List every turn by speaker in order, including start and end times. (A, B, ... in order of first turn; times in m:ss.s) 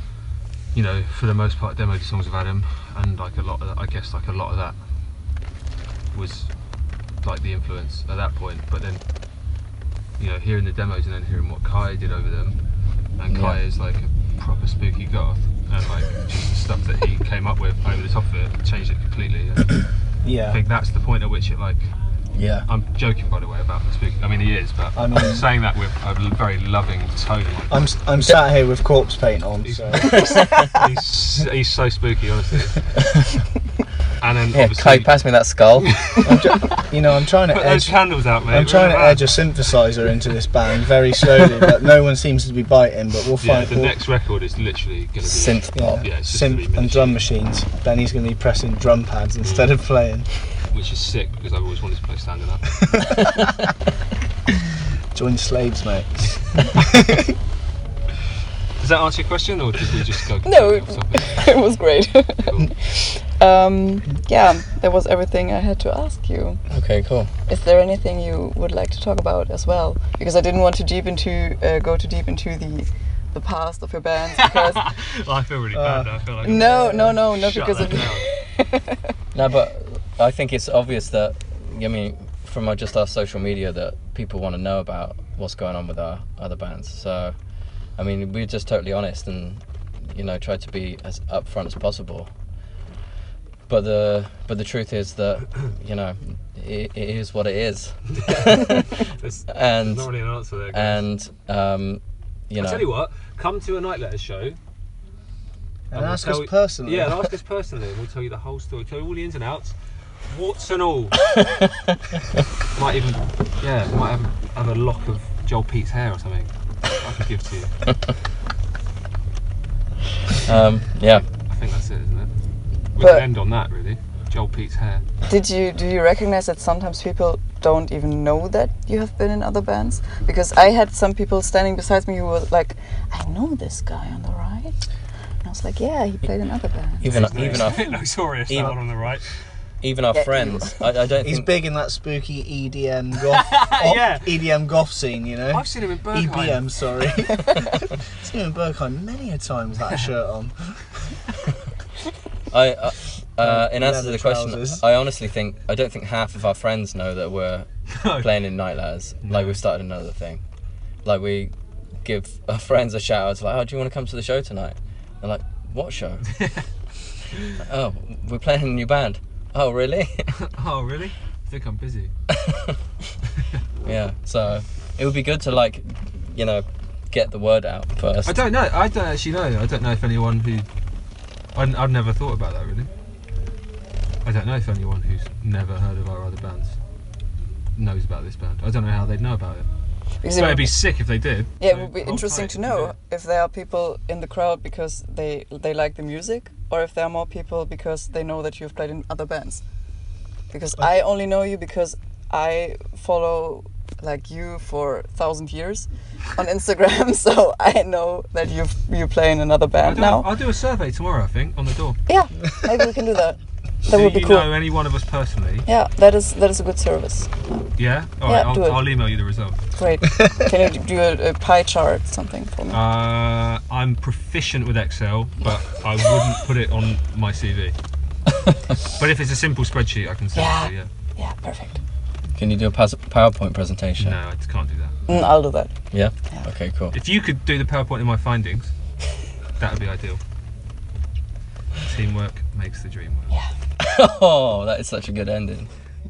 0:00.7-0:04.8 A
0:06.1-0:06.5 A
0:07.2-0:09.0 A
0:10.2-0:12.6 A
0:13.2-0:19.9 A
0:13.3-0:13.6 B
0:20.2-0:20.6 C
0:20.4-0:21.9 A
0:22.3-0:22.7 B
0:22.7-0:28.1 A
0:24.9-0:25.4 C
0:27.7-0:30.2 C
0:29.6-0:32.9 A
0:30.1-0:30.7 B
0:34.2-0:35.2 A
0:34.5-0:36.2 B
0:36.2-0:43.9 C
0:37.5-0:39.5 A
0:43.4-0:47.2 A
0:45.2-0:46.0 B
0:45.7-0:50.3 C
0:49.4-0:49.8 A
0:50.6-0:53.0 A
0:52.8-0:53.6 C
0:55.1-0:57.3 C
0:58.8-1:01.6 A
1:00.4-1:06.6 D
1:02.4-1:02.7 A
1:06.7-1:07.3 B
1:07.4-1:14.9 D
1:14.4-1:18.3 A
1:15.7-1:16.2 C
1:16.4-1:19.0 D
1:19.3-1:27.3 B
1:28.0-1:32.3 B
1:33.7-1:38.8 B
1:38.1-1:41.0 A
1:39.5-1:40.1 B
1:40.7-1:42.9 B
1:42.6-1:44.6 A
1:45.9-1:47.2 C
1:45.9-1:51.3 A
1:52.7-1:57.9 A
2:00.4-2:01.2 B
2:01.5-2:02.3 A
2:02.9-2:05.0 A
2:03.0-2:03.3 D
2:05.3-2:14.8 D
2:15.4-2:17.1 D
2:17.0-2:17.9 B
2:17.0-2:19.3 A
2:18.5-2:18.8 B
2:19.8-2:21.5 B
2:20.1-2:20.8 D
2:21.2-2:31.1 C
2:23.3-2:24.3 A
2:25.5-2:27.1 A
2:32.5-2:40.4 B
2:33.4-2:34.8 C
2:37.9-2:38.3 A
2:39.2-2:39.6 A
2:41.0-2:41.5 B
2:42.0-2:46.3 B
2:47.5-2:50.3 B
2:50.3-2:52.1 A
2:52.3-2:52.8 B
2:53.8-2:58.4 B
2:58.2-3:00.7 A
3:01.5-3:02.9 A
3:04.2-3:06.8 A
3:07.8-3:09.7 A
3:10.2-3:10.8 D
3:10.3-3:12.9 A
3:11.6-3:19.6 D
3:20.5-3:30.3 D
3:29.8-3:32.0 A
3:32.1-3:34.5 D
3:33.8-3:35.7 A
3:35.6-3:37.6 D
3:37.8-3:39.6 A
3:38.2-3:38.9 D
3:39.7-3:42.8 D
3:42.7-3:47.7 A
3:48.9-3:50.9 A
3:50.3-3:51.8 D
3:52.4-3:54.2 B
3:54.0-3:55.1 A
3:55.1-3:55.7 D
3:55.9-3:57.0 B
3:56.9-3:58.7 A
3:59.6-4:00.2 A
4:01.8-4:03.4 A
4:03.8-4:05.7 B